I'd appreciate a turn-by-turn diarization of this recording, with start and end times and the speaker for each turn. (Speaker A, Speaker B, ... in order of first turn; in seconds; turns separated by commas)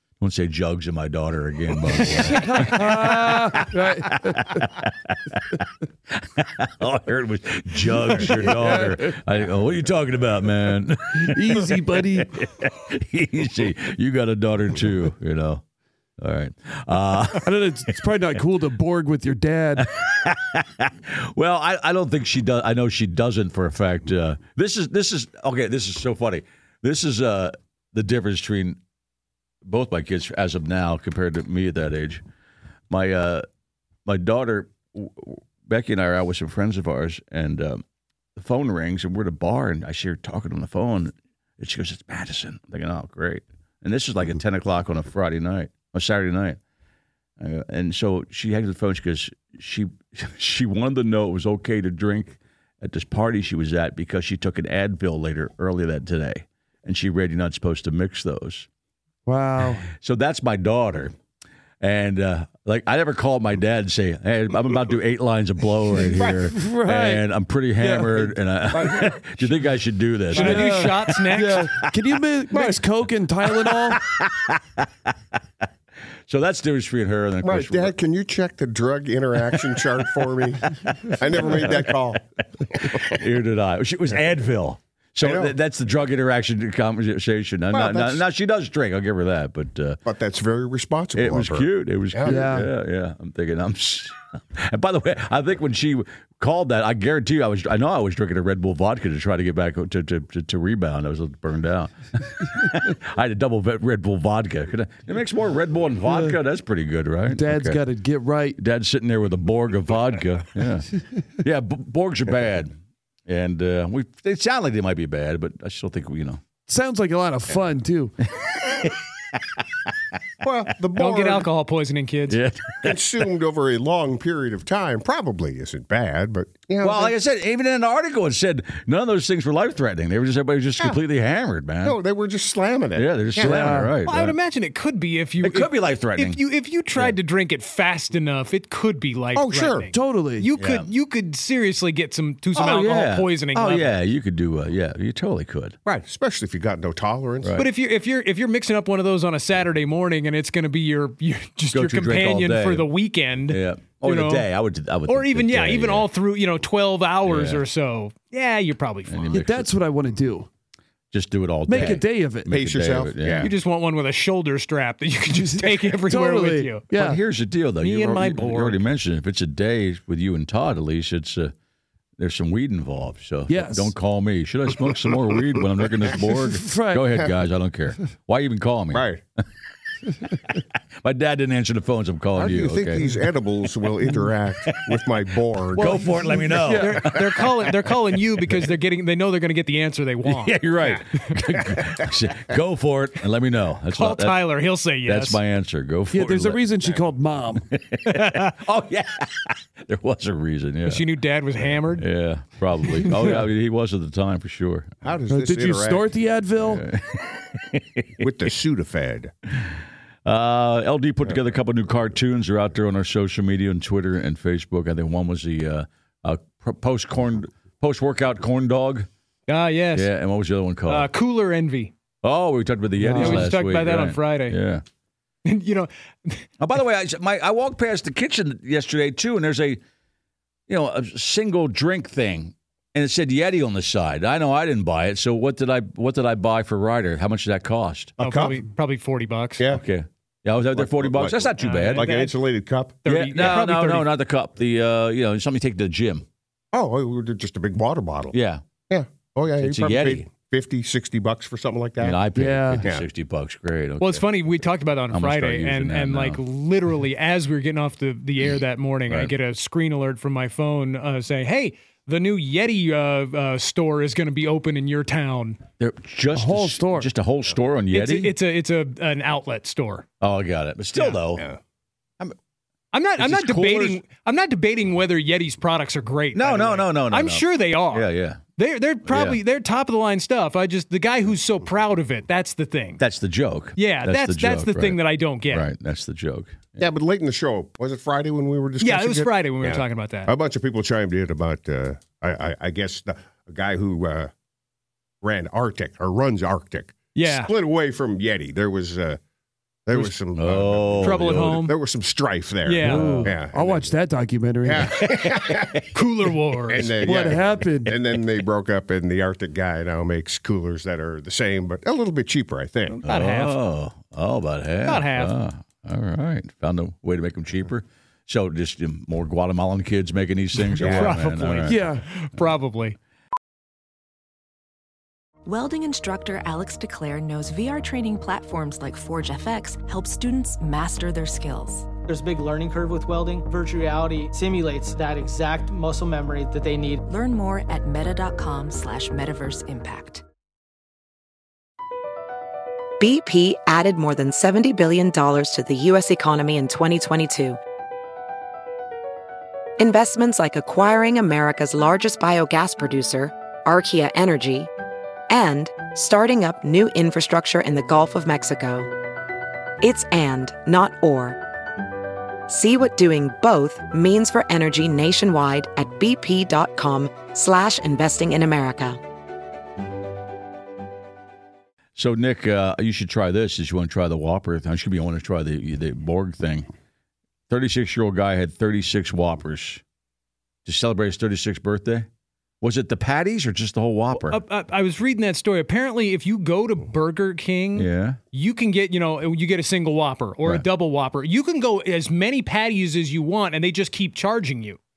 Speaker A: 0.2-15.6, Speaker B: 2.0-4.6, Speaker B: 8.2-9.2, Speaker B: 11.2-12.3, Speaker A: 16.2-17.6, Speaker B: 17.4-19.9, Speaker A: 19.8-28.8, Speaker A: 29.7-32.2, Speaker A: 32.9-33.5, Speaker A: 34.1-37.8, Speaker A: 38.4-46.6, Speaker A: 47.4-58.7, Speaker B: 59.3-59.9, Speaker A: 59.7-61.1, Speaker A: 61.8-71.9, Speaker C: 66.0-66.3, Speaker B: 66.2-67.2, Speaker B: 67.8-68.4, Speaker C: 68.7-69.2, Speaker B: 70.3-74.0, Speaker D: 70.3-71.7, Speaker C: 72.5-72.8, Speaker A: 73.5-74.9, Speaker A: 76.3-77.9, Speaker C: 77.4-83.2, Speaker A: 81.1-81.7, Speaker A: 82.8-90.0, Speaker C: 85.2-85.5, Speaker C: 87.7-88.2, Speaker C: 90.1-92.6, Speaker A: 91.2-107.8, Speaker B: 92.2-92.7, Speaker B: 106.1-106.3, Speaker B: 107.3-108.6, Speaker A: 108.6-110.9, Speaker A: 111.4-112.7, Speaker A: 113.3-116.4, Speaker B: 116.7-118.1, Speaker A: 118.5-119.4, Speaker C: 120.4-121.5, Speaker D: 121.0-122.4, Speaker A: 122.3-123.0, Speaker C: 122.8-127.2, Speaker A: 126.8-132.0, Speaker C: 131.8-133.7, Speaker A: 132.9-134.4, Speaker B: 133.4-133.9, Speaker D: 134.0-143.9, Speaker A: 135.4-136.4, Speaker C: 139.3-139.9, Speaker B: 139.9-140.5, Speaker A: 140.6-140.9, Speaker A: 142.6-145.8, Speaker C: 145.9-147.6, Speaker A: 147.4-147.7, Speaker D: 147.6-154.5, Speaker A: 151.7-152.9, Speaker A: 153.5-156.1, Speaker D: 155.1-159.2, Speaker A: 157.2-157.6, Speaker A: 159.1-159.7, Speaker B: 159.3-160.5, Speaker A: 161.1-163.5, Speaker B: 161.7-162.5, Speaker C: 162.5-163.5, Speaker D: 163.4-166.8, Speaker B: 165.4-167.2, Speaker A: 166.9-171.5, Speaker D: 167.8-168.8, Speaker A: 172.2-179.4, Speaker B: 173.5-173.9, Speaker B: 176.4-177.3, Speaker C: 178.9-179.2, Speaker A: 181.0-183.1, Speaker C: 182.4-186.4, Speaker A: 185.8-187.7, Speaker B: 185.8-187.1, Speaker D: 186.8-190.5, Speaker A: 190.2-194.4, Speaker C: 191.7-192.1, Speaker D: 193.9-195.4, Speaker A: 195.0-196.6, Speaker B: 196.1-197.7, Speaker A: 197.7-201.0, Speaker D: 198.1-198.6, Speaker D: 200.9-202.1, Speaker A: 201.9-204.9, Speaker C: 205.0-206.1, Speaker B: 205.3-206.8, Speaker A: 206.6-208.2, Speaker C: 208.2-209.3, Speaker A: 210.2-219.1, Speaker D: 219.5-220.1, Speaker A: 219.9-221.1, Speaker D: 220.9-221.9, Speaker A: 222.2-224.8, Speaker B: 223.0-223.5, Speaker D: 223.2-224.6, Speaker D: 225.4-226.5, Speaker A: 226.6-229.8, Speaker A: 230.7-238.2, Speaker C: 238.2-238.6, Speaker D: 238.2-239.6, Speaker A: 239.7-242.3, Speaker C: 240.7-243.0, Speaker D: 241.6-242.2, Speaker D: 243.0-244.1, Speaker A: 243.1-246.2, Speaker C: 246.7-248.4, Speaker A: 248.3-248.6, Speaker C: 248.9-252.2, Speaker A: 249.6-250.2, Speaker A: 252.0-254.2, Speaker B: 252.4-252.8, Speaker D: 254.0-265.6, Speaker A: 255.1-256.4, Speaker A: 265.8-268.3, Speaker B: 266.3-267.1, Speaker D: 267.9-270.1, Speaker A: 270.2-271.5, Speaker D: 272.9-283.0, Speaker A: 273.2-274.0, Speaker A: 276.4-278.4, Speaker A: 279.1-279.4, Speaker A: 283.0-285.0, Speaker D: 283.8-285.6, Speaker A: 285.5-286.8, Speaker C: 286.8-294.3, Speaker D: 288.8-290.3, Speaker C: 295.2-299.2, Speaker D: 297.1-297.5, Speaker C: 299.9-303.9, Speaker A: 300.4-301.6, Speaker D: 301.0-301.7, Speaker D: 302.6-303.3, Speaker B: 302.9-304.9, Speaker A: 302.9-303.3, Speaker C: 304.6-305.8, Speaker D: 305.9-307.1, Speaker C: 306.7-313.0, Speaker B: 307.0-308.0, Speaker D: 313.0-313.6, Speaker A: 313.1-321.8, Speaker D: 314.9-315.3, Speaker C: 320.8-321.2, Speaker D: 320.8-323.0, Speaker B: 321.7-322.1, Speaker E: 325.5-331.9, Speaker F: 332.1-337.1, Speaker E: 337.1-340.2, Speaker G: 343.0-347.6, Speaker G: 349.8-354.7, Speaker G: 355.3-358.9, Speaker G: 359.8-361.4, Speaker G: 362.5-369.0, Speaker A: 372.0-376.7, Speaker A: 377.5-379.8, Speaker A: 380.7-382.1, Speaker A: 382.6-384.4, Speaker D: 384.1-394.8, Speaker A: 387.8-388.2